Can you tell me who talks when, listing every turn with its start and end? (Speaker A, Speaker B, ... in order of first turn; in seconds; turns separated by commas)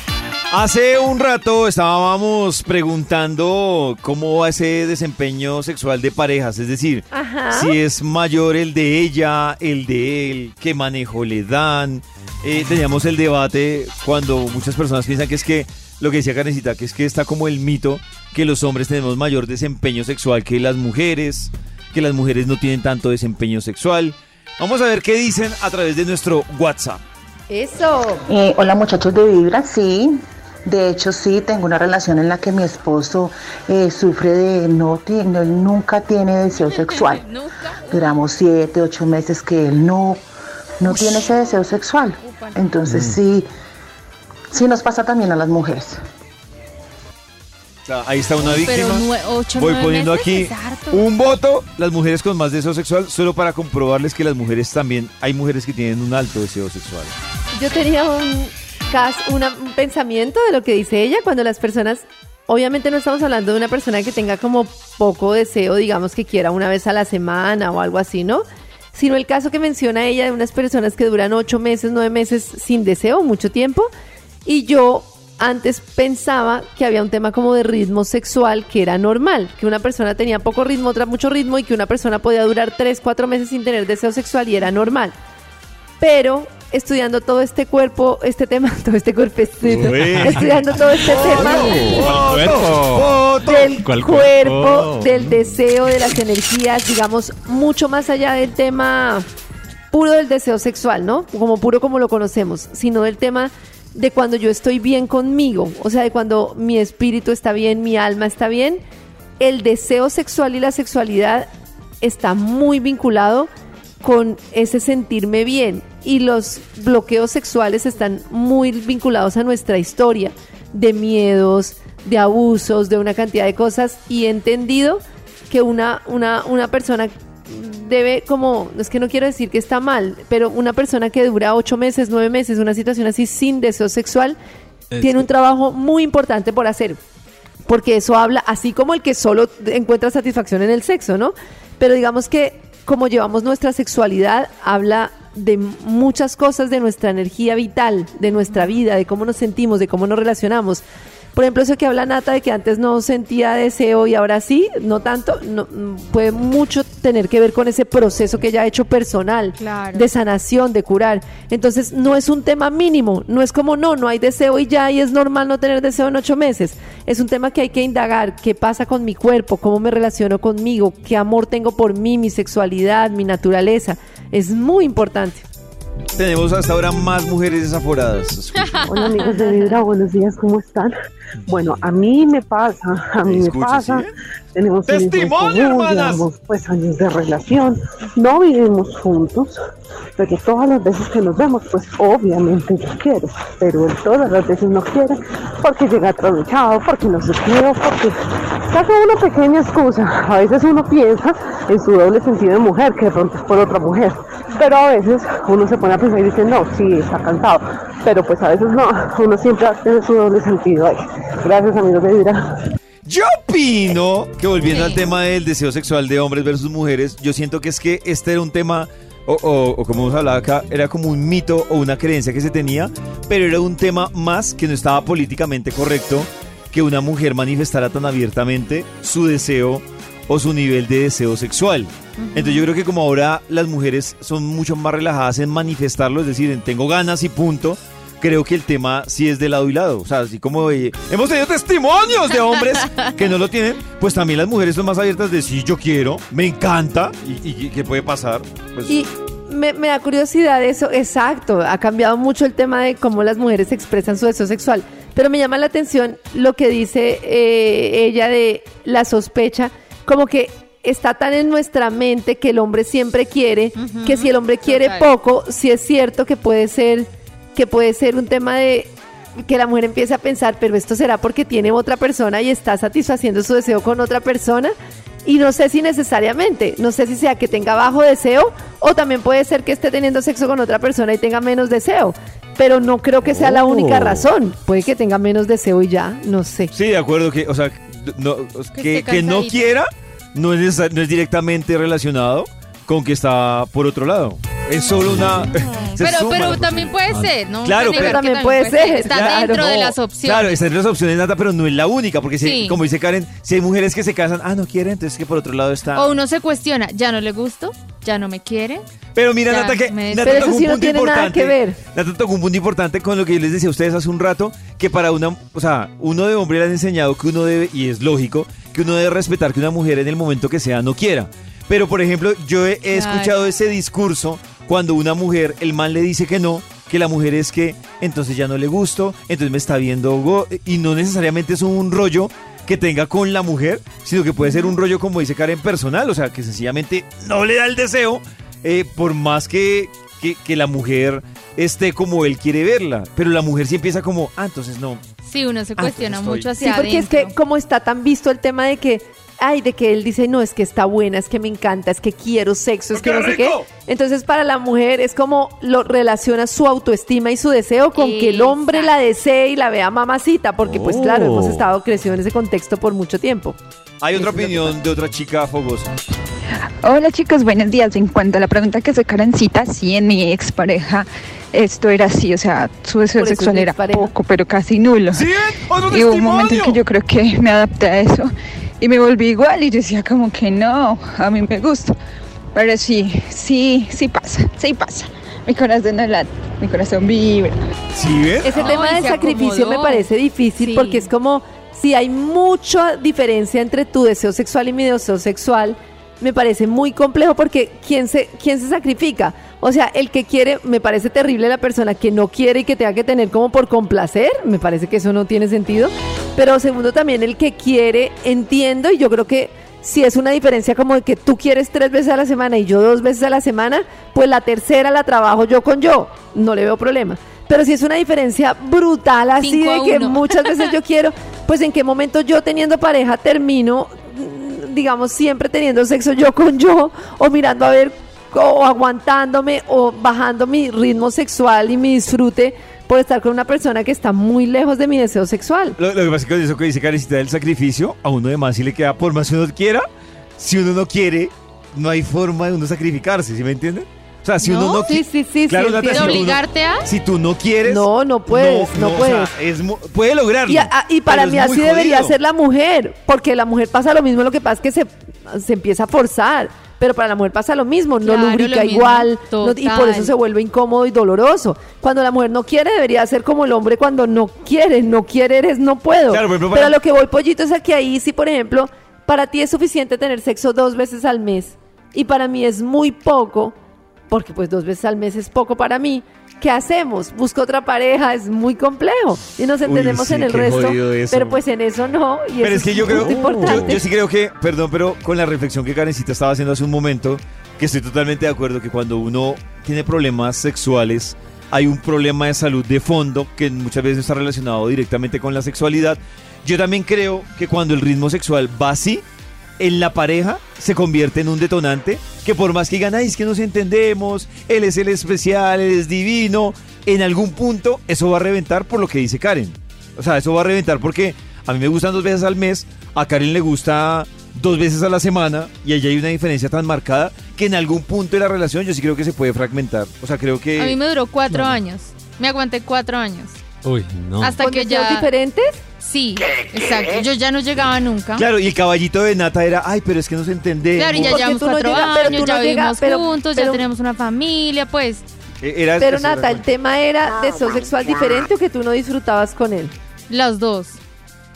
Speaker A: 0.5-27.0, Speaker B: 7.1-7.8, Speaker B: 27.5-28.2, Speaker C: 28.3-30.1, Speaker C: 30.7-37.2, Speaker D: 36.8-38.2, Speaker C: 37.9-40.2, Speaker C: 40.8-43.5, Speaker D: 40.9-41.6, Speaker D: 42.2-42.6, Speaker C: 44.5-46.0, Speaker A: 47.9-57.1, Speaker D: 48.6-51.1, Speaker B: 57.6-73.9, Speaker B: 74.5-85.1, Speaker B: 86.0-92.1, Speaker A: 89.7-93.7, Speaker E: 89.8-90.4, Speaker E: 91.3-95.4, Speaker B: 93.4-99.3, Speaker B: 99.9-108.8, Speaker B: 109.4-111.5, Speaker B: 112.0-113.5, Speaker B: 114.0-134.4, Speaker B: 135.0-137.0, Speaker B: 137.7-150.8, Speaker B: 151.3-175.5, Speaker D: 159.6-160.1, Speaker A: 176.2-178.9, Speaker D: 178.7-179.8, Speaker F: 178.9-181.0, Speaker F: 181.5-189.6, Speaker A: 183.2-184.1, Speaker A: 184.9-186.2, Speaker F: 190.2-198.2, Speaker F: 198.7-212.4, Speaker A: 213.1-249.0, Speaker D: 214.7-215.0, Speaker D: 232.2-232.7, Speaker B: 248.9-274.7, Speaker D: 263.8-265.1, Speaker B: 275.2-286.7, Speaker E: 283.4-284.2, Speaker A: 286.7-298.2, Speaker D: 288.7-289.6, Speaker D: 295.9-300.5, Speaker B: 297.9-299.7, Speaker A: 299.0-306.1, Speaker D: 302.4-302.8, Speaker D: 305.9-308.8, Speaker A: 309.1-345.0, Speaker D: 309.5-310.6, Speaker B: 310.2-311.8, Speaker D: 322.9-323.4, Speaker D: 334.4-334.7, Speaker D: 345.3-347.3, Speaker A: 345.8-346.5, Speaker B: 346.6-363.6, Speaker A: 352.9-353.7, Speaker D: 357.9-358.9, Speaker E: 360.6-361.6, Speaker A: 364.0-365.9, Speaker B: 364.1-364.8, Speaker G: 366.8-375.3, Speaker B: 373.1-374.1, Speaker A: 375.1-376.8, Speaker G: 375.8-382.0, Speaker G: 382.6-387.6, Speaker A: 387.9-388.8, Speaker B: 388.4-435.8, Speaker D: 388.5-391.1, Speaker D: 419.4-420.3, Speaker A: 435.8-439.9, Speaker A: 440.4-452.2, Speaker B: 444.4-446.3, Speaker D: 445.9-446.9, Speaker B: 447.6-449.3, Speaker B: 450.5-473.6, Speaker D: 458.0-460.1, Speaker A: 466.1-466.8, Speaker B: 474.1-483.8, Speaker A: 479.6-481.4, Speaker A: 482.4-499.1, Speaker E: 482.9-483.7, Speaker A: 499.6-520.8, Speaker D: 520.6-523.4, Speaker E: 523.6-524.4, Speaker D: 524.2-525.1, Speaker B: 524.4-525.6, Speaker D: 525.8-528.3, Speaker A: 528.2-531.3, Speaker D: 530.8-535.1, Speaker B: 530.9-533.6, Speaker A: 531.9-532.3, Speaker A: 535.4-536.5, Speaker B: 535.8-539.7, Speaker D: 540.1-540.8